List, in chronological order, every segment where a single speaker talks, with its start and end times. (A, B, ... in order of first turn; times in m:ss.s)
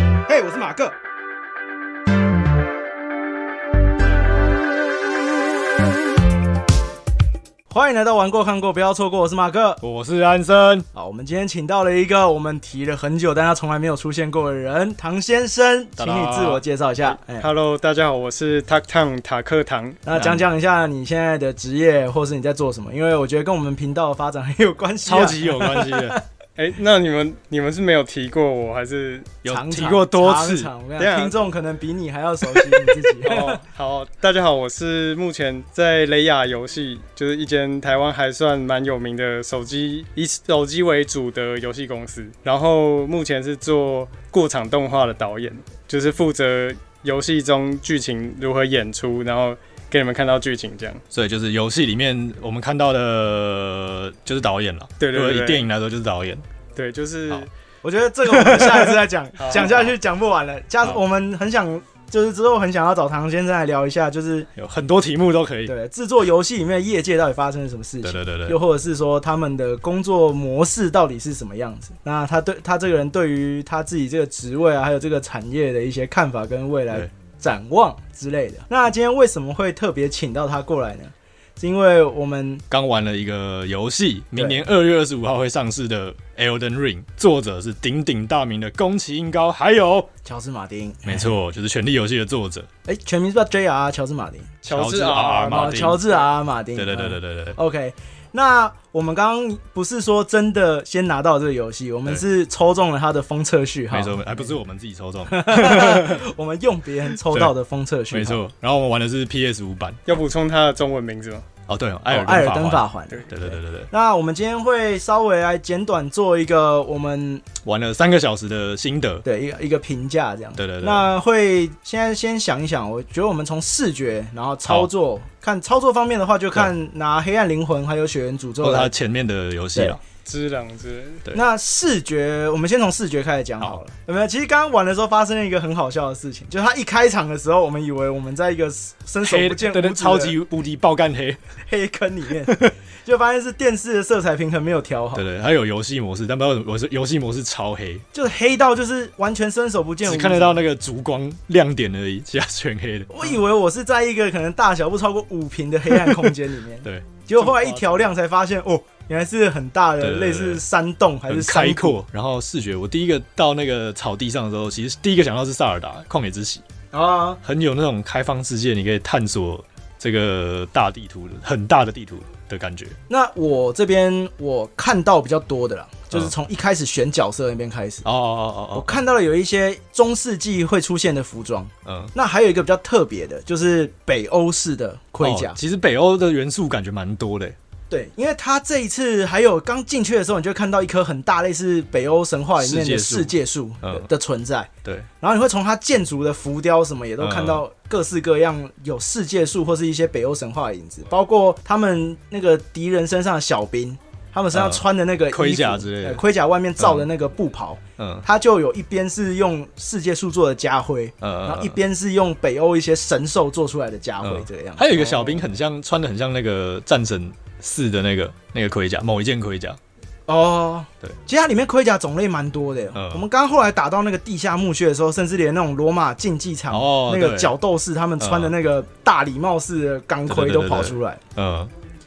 0:00.3-0:01.0 A
0:07.7-0:09.8 A
0:09.8-0:10.9 B
0:10.9-0:17.5 A
0:16.0-0:16.6 B
0:17.3-0:20.0 C
0:20.1-0:26.2 A
0:20.2-0:20.5 B
0:25.0-0:26.2 B
0:26.6-0:29.4 C
0:29.4-0:30.7 B
0:29.4-0:33.6 A
0:31.0-0:31.4 C
0:33.2-0:51.0 C
0:51.1-0:56.4 B
0:55.0-0:55.7 C
0:56.8-0:57.5 C
0:57.8-1:04.5 A
0:58.3-0:58.9 B
0:59.4-0:59.9 C
1:04.6-1:05.7 B
1:05.7-1:22.6 A
1:08.0-1:08.6 B
1:22.7-1:30.1 B
1:24.4-1:24.6 A
1:30.2-1:31.3 A
1:31.1-1:32.7 B
1:32.9-1:34.6 A
1:34.6-1:36.1 B
1:34.7-1:36.1 C
1:35.5-1:44.5 A
1:36.7-1:37.6 B
1:43.9-1:46.2 B
1:45.3-1:48.4 A
1:47.3-1:47.5 B
1:48.1-1:50.0 B
1:50.1-1:51.4 C
1:51.7-1:53.9 B
1:52.1-1:57.5 A
1:57.6-1:59.2 B
1:59.2-2:08.9 A
2:00.6-2:01.1 B
2:08.6-2:10.0 B
2:10.3-2:11.2 C
2:11.3-2:20.4 A
2:19.2-2:21.4 B
2:21.7-2:25.3 A
2:22.4-2:22.8 B
2:25.1-2:28.0 B
2:28.1-2:30.6 A
2:30.0-2:33.3 B
2:33.1-2:42.0 A
2:35.9-2:37.7 B
2:40.0-2:40.6 B
2:41.3-2:46.6 B
2:46.9-2:47.4 A
2:47.4-2:53.0 B
2:53.1-2:58.1 A
2:58.0-2:59.0 B
2:58.7-3:05.6 A
3:01.8-3:02.1 B
3:05.2-3:07.6 B
3:07.9-3:14.7 A
3:12.6-3:14.1 B
3:14.8-3:15.1 B
3:15.2-3:35.4 A
3:17.2-3:17.6 B
3:24.5-3:26.2 B
3:26.8-3:27.1 B
3:28.0-3:28.2 B
3:31.2-3:31.8 B
3:34.2-3:39.8 B
3:40.3-3:51.2 A
3:42.9-3:43.3 B
3:46.7-3:47.5 B
3:48.2-3:48.5 B
3:50.3-3:51.7 B